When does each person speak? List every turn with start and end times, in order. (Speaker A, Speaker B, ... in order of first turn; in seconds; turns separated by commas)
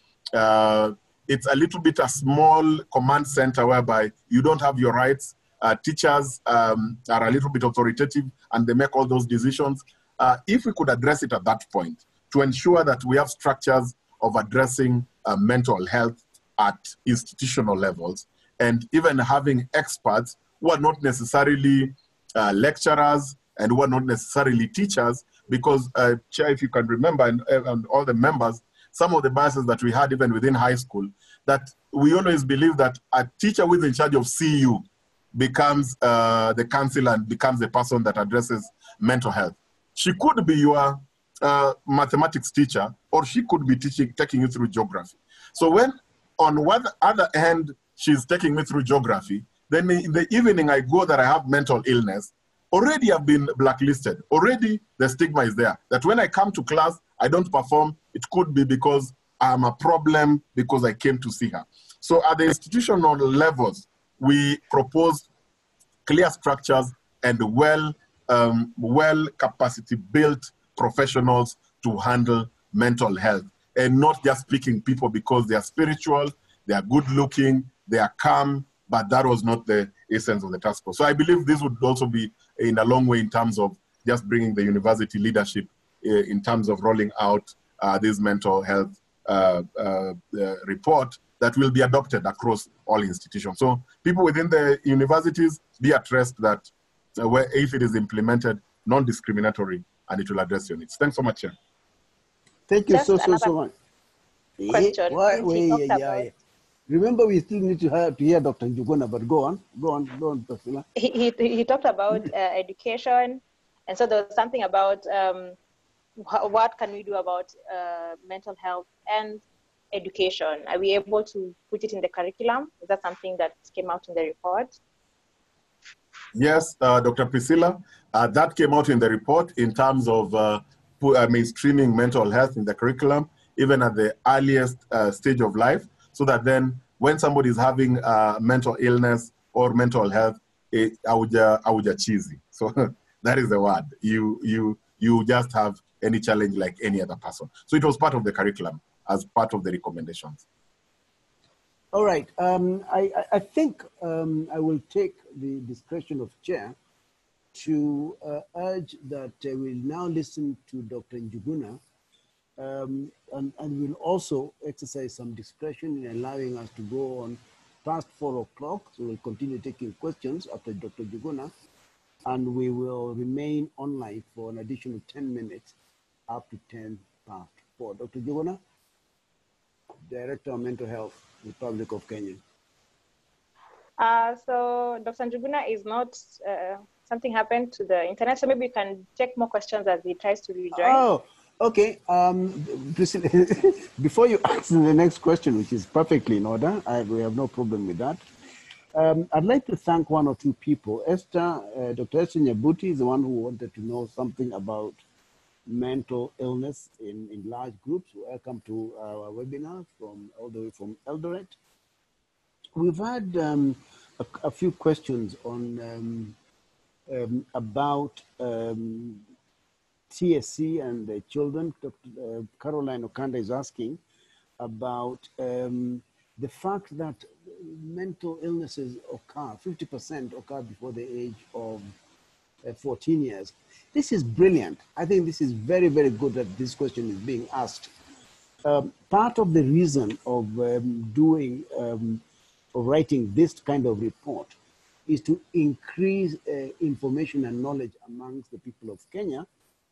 Speaker A: 0.3-65.3, Speaker A: 66.0-101.5, Speaker B: 102.7-103.7, Speaker C: 102.9-103.5, Speaker B: 104.6-106.3, Speaker C: 104.7-106.3, Speaker B: 106.9-110.8, Speaker C: 111.0-115.5, Speaker C: 116.2-124.8, Speaker A: 126.3-150.4, Speaker B: 151.9-156.8, Speaker B: 157.5-161.8, Speaker B: 162.6-171.5, Speaker B: 172.2-175.7, Speaker B: 176.3-178.6, Speaker B: 180.1-182.4, Speaker C: 184.0-191.0, Speaker B: 190.7-198.2, Speaker B: 198.9-205.0, Speaker B: 205.7-211.6, Speaker B: 212.7-216.4, Speaker B: 217.1-219.2, Speaker B: 220.1-224.0, Speaker B: 224.6-231.9, Speaker B: 232.6-237.9, Speaker B: 238.6-244.5, Speaker B: 245.1-249.5